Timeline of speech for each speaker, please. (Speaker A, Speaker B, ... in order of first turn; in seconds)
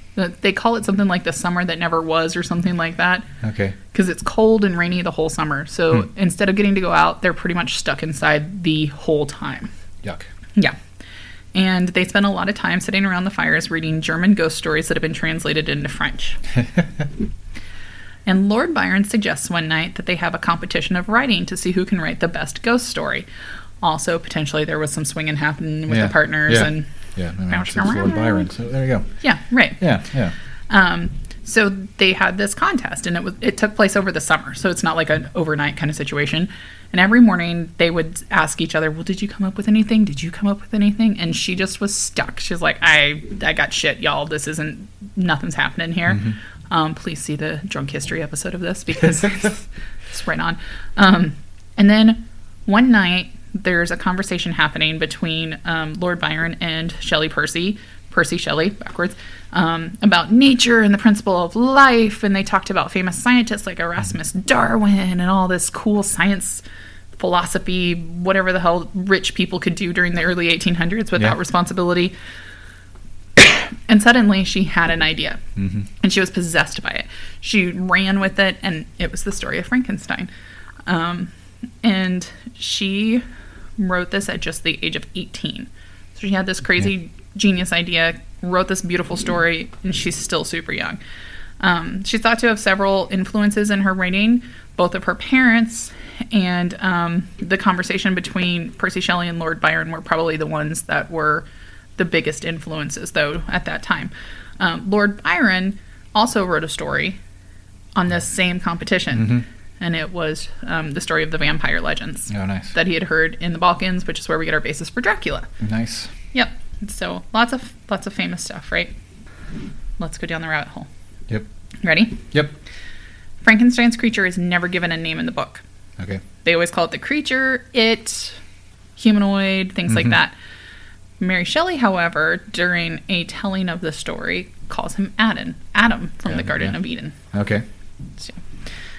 Speaker A: 0.2-3.3, 3.9-9.7, 11.5-16.4, 18.3-23.3, 23.8-26.9, 27.5-28.5, 29.2-29.8, 30.7-66.6, 67.2-72.1, 73.4-75.4, 76.0-80.3, 80.9-81.3, 81.8-83.2, 83.8-91.0, 91.6-101.5, 102.0-107.2, 108.0-115.5, 116.3-118.9, 120.0-120.9, 121.8-122.2, 123.4-125.6, 126.4-128.4, 129.0-130.3, 131.2-137.2
Speaker B: 3.4-3.8, 10.0-10.3, 25.9-29.1, 29.8-30.3, 75.6-75.9, 109.2-109.4, 112.3-112.8, 115.6-116.1, 126.0-126.2, 129.9-130.2, 136.3-136.8, 137.3-137.7